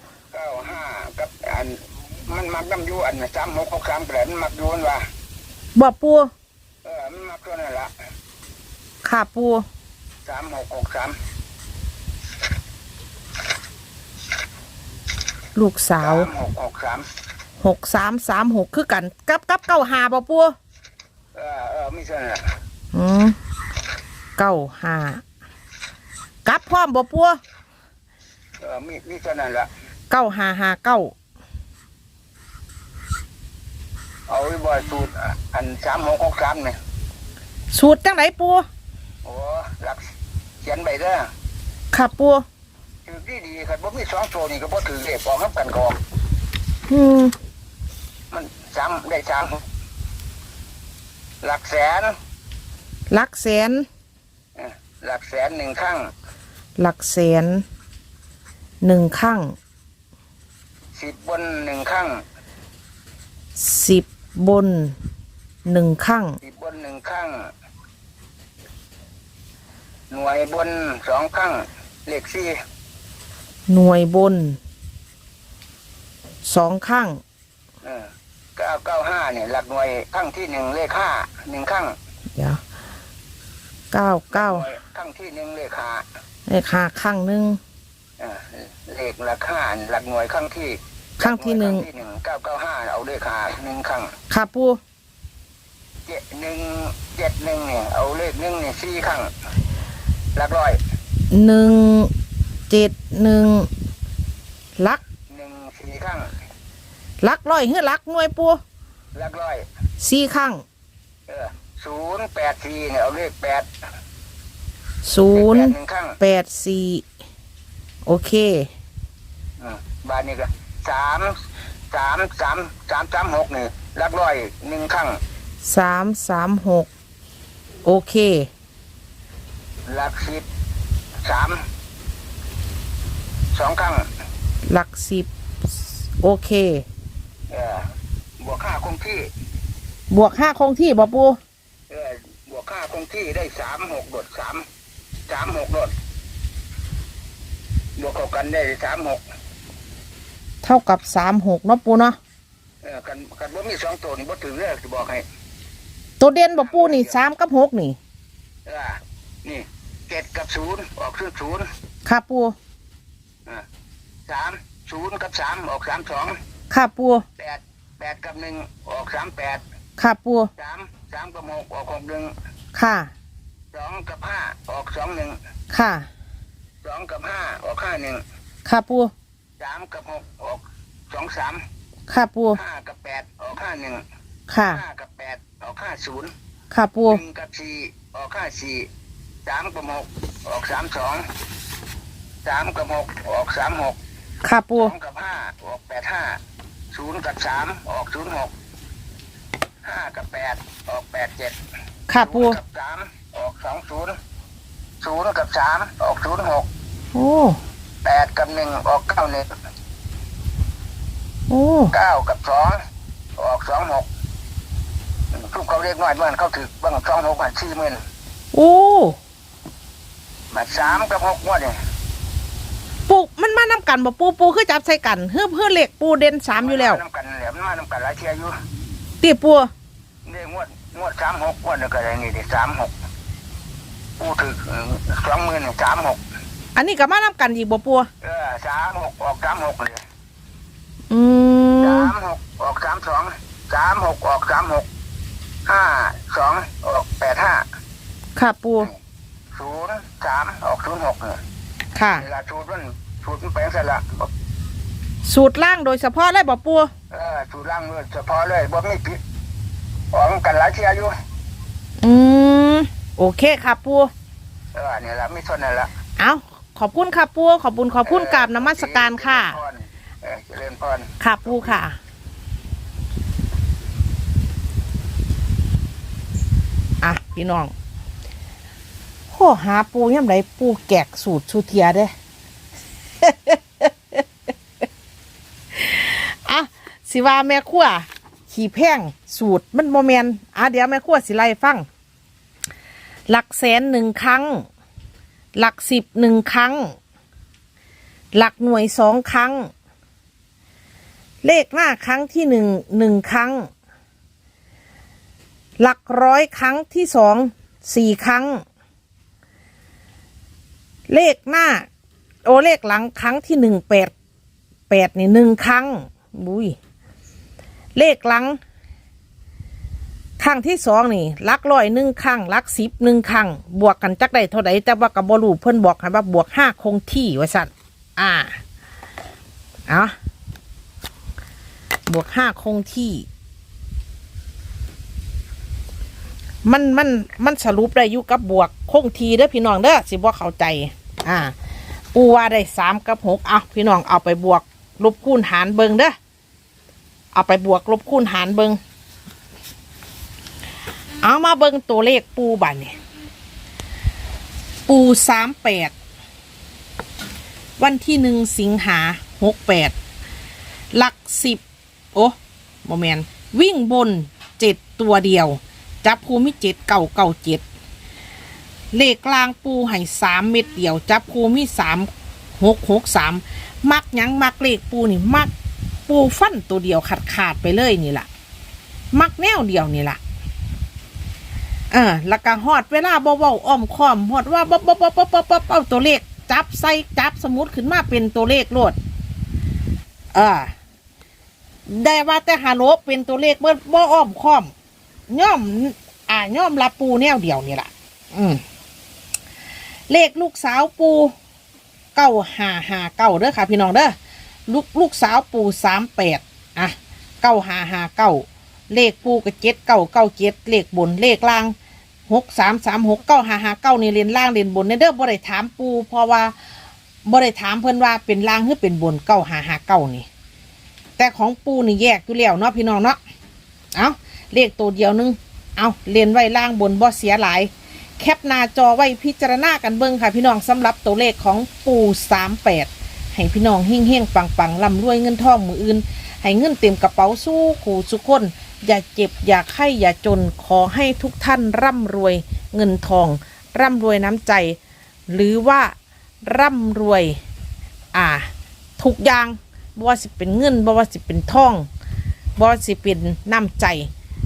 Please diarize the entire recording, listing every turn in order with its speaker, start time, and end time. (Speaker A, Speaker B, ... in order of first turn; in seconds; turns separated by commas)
Speaker A: 0.3-5.0, Speaker B: 5.8-6.3, Speaker A: 6.8-7.9, Speaker B: 9.0-9.7, Speaker A: 10.2-11.2, Speaker B: 15.6-16.3, Speaker A: 16.0-17.1, Speaker B: 17.6-20.5, Speaker A: 21.3-22.4, Speaker B: 22.9-23.4, Speaker B: 24.4-25.2, Speaker B: 26.4-27.4, Speaker A: 28.6-29.7, Speaker B: 30.1-31.1, Speaker A: 34.3-36.8, Speaker B: 37.7-38.6, Speaker A: 39.2-40.0, Speaker A: 40.6-41.3, Speaker B: 41.9-42.4, Speaker A: 43.1-46.0, Speaker B: 46.9-47.3, Speaker A: 48.3-49.6, Speaker A: 51.4-52.1, Speaker B: 53.1-53.9, Speaker A: 54.6-56.1, Speaker B: 56.8-57.6, Speaker B: 58.8-59.5, Speaker A: 61.0-62.2, Speaker B: 63.6-65.0, Speaker B: 65.7-66.4, Speaker A: 66.4-67.5, Speaker A: 70.1-72.5, Speaker B: 73.7-74.6, Speaker B: 76.5-77.2, Speaker A: 77.8-81.9, Speaker B: 83.9-84.7, Speaker A: 84.3-86.0, Speaker B: 86.5-87.6, Speaker A: 88.2-94.1, Speaker B: 91.2-91.9, Speaker B: 94.3-94.8, Speaker A: 96.1-99.3, Speaker A: 100.4-100.8, Speaker B: 101.3-102.1, Speaker B: 102.7-103.7, Speaker A: 105.3-106.3, Speaker B: 107.2-108.6, Speaker A: 109.2-109.6, Speaker B: 110.0-110.6, Speaker A: 111.3-113.7, Speaker B: 115.0-117.0, Speaker A: 115.3-116.2, Speaker B: 118.1-118.7, Speaker A: 119.6-121.3, Speaker A: 121.9-125.2, Speaker B: 125.6-126.9, Speaker B: 127.8-128.5, Speaker A: 129.9-130.5, Speaker A: 131.2-131.6, Speaker A: 133.6-134.1, Speaker B: 134.7-135.3, Speaker B: 136.2-136.8, Speaker A: 137.5-137.8, Speaker A: 138.4-139.2, Speaker B: 140.1-141.4, Speaker A: 141.9-144.7, Speaker A: 145.3-145.9, Speaker A: 148.0-149.2, Speaker B: 150.6-152.2, Speaker A: 152.8-155.2, Speaker B: 156.2-158.0, Speaker A: 156.6-157.1, Speaker A: 158.7-161.7, Speaker B: 162.1-162.6, Speaker A: 164.3-166.4, Speaker B: 166.7-167.2, Speaker A: 167.4-169.6, Speaker B: 170.0-170.5, Speaker A: 170.6-172.3, Speaker B: 172.8-173.1, Speaker A: 173.7-175.4, Speaker B: 175.7-176.1, Speaker A: 176.8-178.2, Speaker B: 178.7-179.1, Speaker A: 179.6-181.6, Speaker B: 182.1-182.6, Speaker A: 182.5-184.0, Speaker B: 184.5-184.8, Speaker A: 184.7-186.3, Speaker B: 186.7-187.2, Speaker A: 187.1-188.9, Speaker A: 189.5-191.2, Speaker A: 192.4-194.0, Speaker B: 194.4-194.9, Speaker A: 194.8-196.4, Speaker A: 196.9-198.5, Speaker A: 199.8-201.6, Speaker B: 202.1-202.6, Speaker A: 202.2-204.2, Speaker A: 205.0-206.7, Speaker B: 207.1-207.6, Speaker A: 208.0-209.4, Speaker B: 211.5-211.9, Speaker A: 211.9-212.8, Speaker A: 213.4-214.1, Speaker A: 215.3-218.0, Speaker B: 218.5-219.2, Speaker A: 220.5-221.8, Speaker B: 223.1-227.0, Speaker A: 226.6-228.5, Speaker B: 229.2-229.7, Speaker A: 230.2-232.9, Speaker A: 234.2-236.2, Speaker B: 236.8-238.1, Speaker A: 238.2-240.0, Speaker B: 241.1-242.1, Speaker A: 241.8-244.9, Speaker A: 245.7-247.6, Speaker B: 248.4-248.9, Speaker A: 249.6-251.4, Speaker B: 251.9-252.2, Speaker A: 252.2-254.3, Speaker B: 255.2-256.9, Speaker A: 257.1-259.2, Speaker A: 260.1-261.1, Speaker B: 262.0-264.1, Speaker A: 264.8-265.9, Speaker B: 266.2-269.6, Speaker A: 268.0-271.8, Speaker B: 271.2-272.0, Speaker B: 277.0-277.7, Speaker B: 279.3-282.1, Speaker B: 283.2-284.2, Speaker B: 285.7-291.9, Speaker B: 293.3-294.7, Speaker B: 295.6-297.0, Speaker B: 298.4-299.7, Speaker B: 301.4-303.7, Speaker B: 305.8-308.6, Speaker B: 311.1-311.9, Speaker B: 312.4-314.1, Speaker B: 314.9-316.8, Speaker B: 318.0-318.6, Speaker B: 320.4-328.6, Speaker B: 329.9-330.1, Speaker B: 332.1-333.3, Speaker B: 336.6-341.6, Speaker B: 342.1-346.1, Speaker B: 347.3-348.8, Speaker B: 351.2-352.9, Speaker B: 354.9-355.9, Speaker B: 357.8-359.9, Speaker B: 360.9-361.6, Speaker B: 362.1-367.6, Speaker B: 368.9-375.5, Speaker B: 376.1-378.3, Speaker B: 379.1-380.2, Speaker B: 381.9-389.0, Speaker B: 390.3-390.7, Speaker B: 391.9-394.7, Speaker B: 395.3-398.6, Speaker B: 400.1-401.3, Speaker B: 402.1-404.1, Speaker B: 404.7-411.8, Speaker B: 412.3-416.6, Speaker B: 417.3-420.3, Speaker B: 421.2-423.2, Speaker B: 423.9-447.4, Speaker B: 448.1-451.9, Speaker B: 452.6-454.1